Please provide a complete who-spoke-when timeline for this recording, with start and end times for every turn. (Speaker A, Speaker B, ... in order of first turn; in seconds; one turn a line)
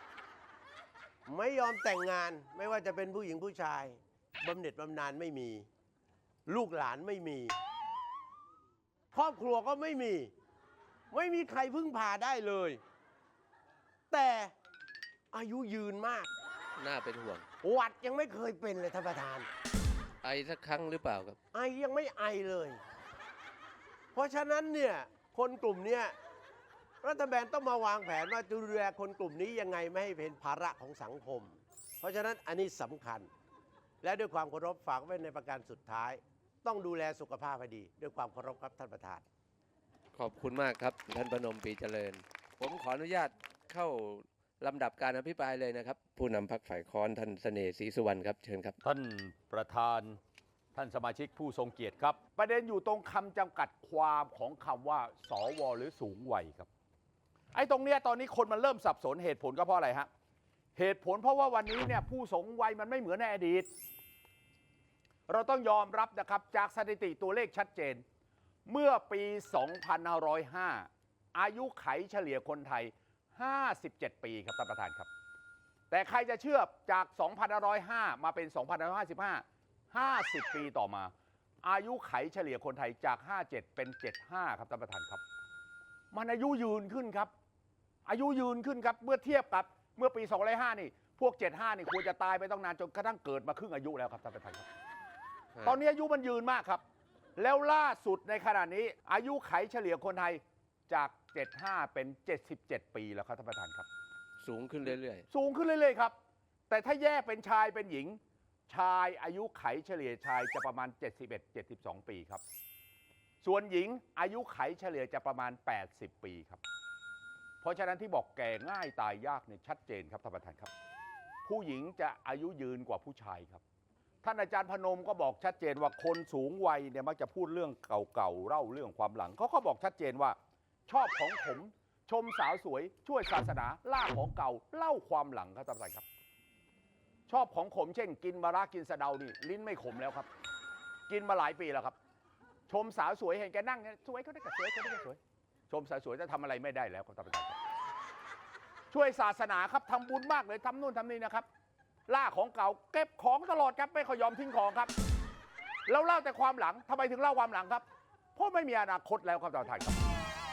Speaker A: 1.2-5.7
Speaker A: 6.5-7.6
Speaker A: 9.1-10.3
Speaker A: 11.1-12.8
Speaker A: 14.1-14.5
Speaker A: 15.3-16.3
Speaker B: 16.8-17.4
Speaker A: 17.6-19.5
Speaker B: 20.2-21.4
Speaker A: 21.5-22.8
Speaker A: 24.1-26.1
Speaker A: 27.0-33.3
Speaker A: 34.0-39.2
Speaker B: 40.1-48.8
Speaker C: 48.8-50.2
Speaker C: 50.7-56.7
Speaker C: 57.5-60.1
Speaker C: 60.7-63.7
Speaker C: 65.3-68.0
Speaker C: 68.7-75.1
Speaker C: 75.9-85.2
Speaker C: 86.1-87.3
Speaker C: 88.0-94.7
Speaker C: 95.6-96.8
Speaker C: 97.3-103.8
Speaker B: 104.4-105.2
Speaker C: 105.3-106.1
Speaker C: 106.7-112.4
Speaker C: 113.4-116.6
Speaker C: 117.6-120.7
Speaker C: 121.4-123.6
Speaker C: 124.2-130.4
Speaker C: 130.9-136.0
Speaker C: 137.3-140.3
Speaker C: 141.1-141.9
Speaker C: 142.7-145.2
Speaker C: 145.7-147.6
Speaker C: 148.9-151.4
Speaker C: 152.1-154.9
Speaker C: 155.8-160.0